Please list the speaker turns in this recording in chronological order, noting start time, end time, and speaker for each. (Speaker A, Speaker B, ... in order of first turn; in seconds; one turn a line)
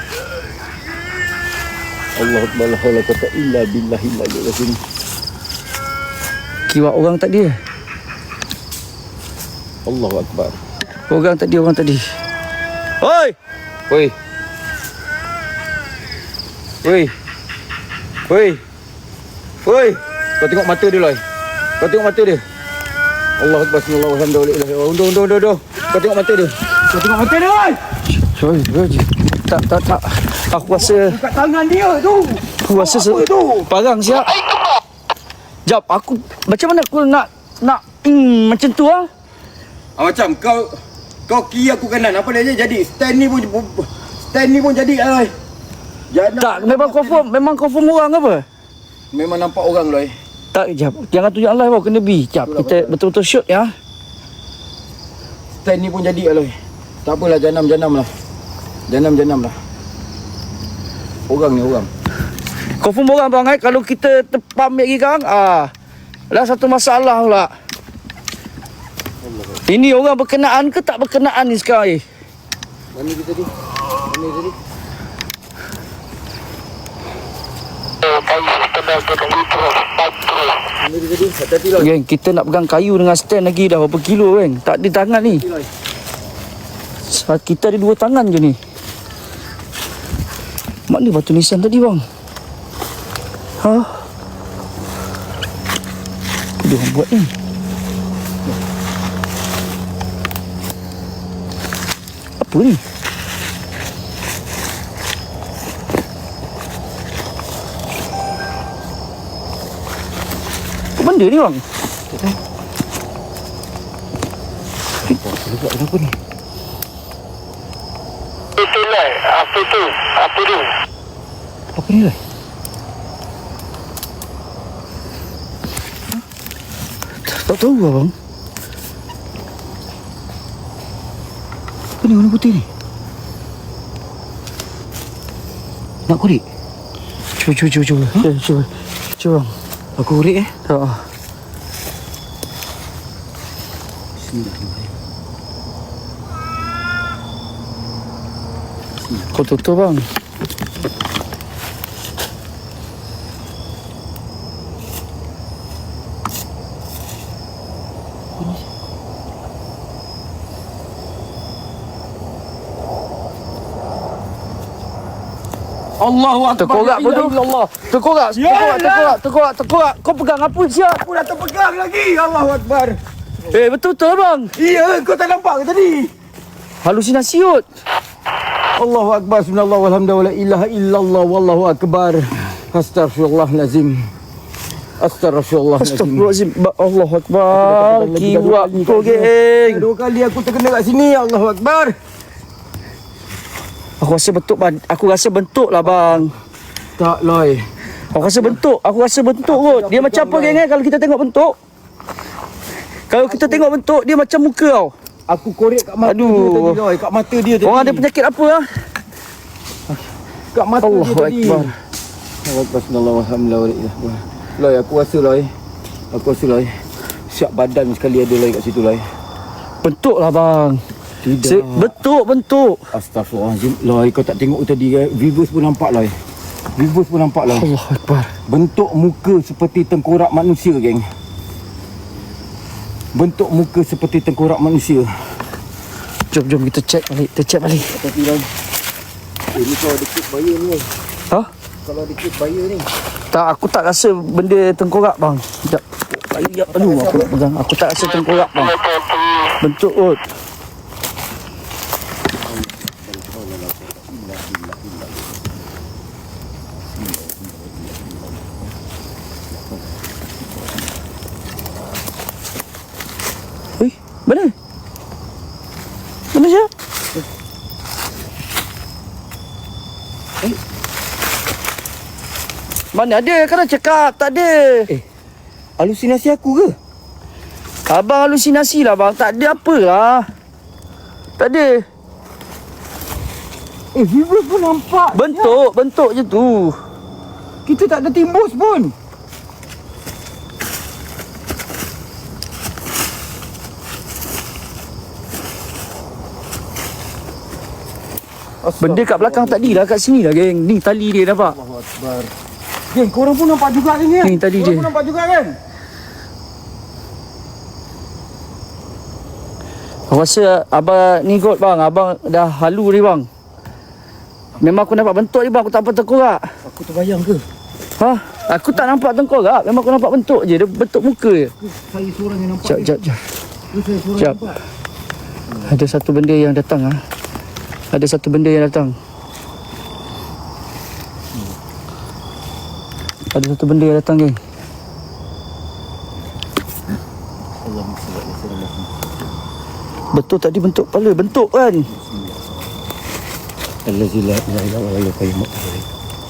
Speaker A: 2.2-4.8
Speaker B: 6.7-7.6
Speaker A: 9.8-10.6
Speaker B: 11.1-12.1
Speaker B: 13.0-13.4
Speaker A: 13.9-14.1
Speaker A: 16.8-17.1
Speaker A: 18.3-18.6
Speaker A: 19.6-21.2
Speaker A: 21.8-22.4
Speaker A: 23.4-27.8
Speaker B: 28.2-31.2
Speaker A: 30.5-33.7
Speaker B: 32.6-34.4
Speaker B: 35.7-39.1
Speaker A: 40.0-40.8
Speaker A: 41.3-45.3
Speaker A: 46.1-47.2
Speaker B: 46.4-48.5
Speaker A: 49.1-50.1
Speaker B: 50.5-53.7
Speaker A: 52.4-53.0
Speaker A: 55.6-58.1
Speaker A: 58.9-59.5
Speaker A: 61.3-61.9
Speaker B: 62.8-65.7
Speaker B: 66.3-67.5
Speaker A: 69.2-69.6
Speaker B: 69.7-72.0
Speaker A: 72.9-74.6
Speaker C: 78.0-80.2
Speaker A: 80.8-81.9
Speaker B: 81.8-85.5
Speaker A: 85.2-85.7
Speaker B: 87.1-88.6
Speaker B: 90.9-92.0
Speaker B: 93.6-94.0
Speaker B: 96.6-97.3
Speaker B: 102.4-102.8
Speaker B: 111.0-111.6
Speaker A: 112.1-112.4
Speaker A: 115.0-116.2
Speaker C: 118.6-120.7
Speaker A: 121.8-122.2
Speaker B: 127.3-128.1
Speaker A: 132.0-132.7
Speaker A: 136.1-136.4
Speaker B: 137.4-139.5
Speaker A: 140.0-140.5
Speaker B: 140.7-141.0
Speaker A: 144.2-144.9
Speaker B: 149.3-150.0
Speaker A: 158.4-158.6
Speaker A: 166.0-169.2
Speaker B: 166.6-171.1
Speaker A: 171.0-173.0
Speaker B: 173.5-174.5
Speaker A: 174.6-176.1
Speaker B: 176.8-177.7
Speaker A: 178.8-184.1
Speaker A: 185.0-186.3
Speaker B: 185.8-189.9
Speaker A: 187.5-192.0
Speaker B: 194.0-196.3
Speaker A: 197.0-198.6
Speaker B: 198.1-201.6
Speaker A: 199.4-200.6
Speaker B: 203.1-204.9
Speaker A: 203.3-203.7
Speaker A: 205.3-208.1
Speaker B: 206.0-206.8
Speaker B: 207.6-208.7
Speaker A: 210.5-211.7
Speaker B: 210.8-211.7
Speaker A: 212.4-215.5
Speaker A: 216.1-219.1
Speaker B: 219.8-220.8
Speaker A: 221.2-222.0
Speaker B: 221.4-222.8
Speaker A: 222.9-226.1
Speaker A: 226.8-227.7
Speaker B: 227.5-228.3
Speaker A: 228.5-231.1
Speaker A: 233.1-235.4
Speaker B: 236.3-237.9
Speaker A: 237.9-238.5
Speaker A: 239.5-240.9
Speaker A: 241.8-242.9
Speaker B: 243.3-248.8
Speaker A: 246.7-247.3
Speaker B: 249.6-250.2
Speaker A: 252.4-255.5
Speaker A: 256.9-258.8
Speaker A: 259.5-259.9
Speaker A: 260.4-260.9
Speaker B: 263.8-264.5
Speaker B: 266.3-266.7
Speaker B: 272.9-274.9
Speaker A: 275.8-276.8
Speaker B: 277.9-280.3
Speaker B: 281.4-281.9
Speaker A: 283.9-285.6
Speaker B: 285.1-286.8
Speaker A: 287.7-288.9
Speaker A: 298.6-299.9
Speaker B: 298.8-301.6
Speaker A: 301.4-302.3
Speaker A: 302.9-305.6
Speaker B: 304.2-304.9
Speaker B: 310.1-313.3
Speaker B: 314.6-316.5
Speaker A: 316.6-317.4
Speaker B: 318.0-321.5
Speaker A: 321.6-322.9
Speaker B: 322.6-323.2
Speaker A: 323.7-324.6
Speaker B: 325.7-327.0
Speaker B: 327.9-328.9
Speaker B: 333.3-334.4
Speaker A: 337.6-339.4
Speaker B: 340.1-341.9
Speaker A: 341.9-342.5
Speaker A: 343.9-345.9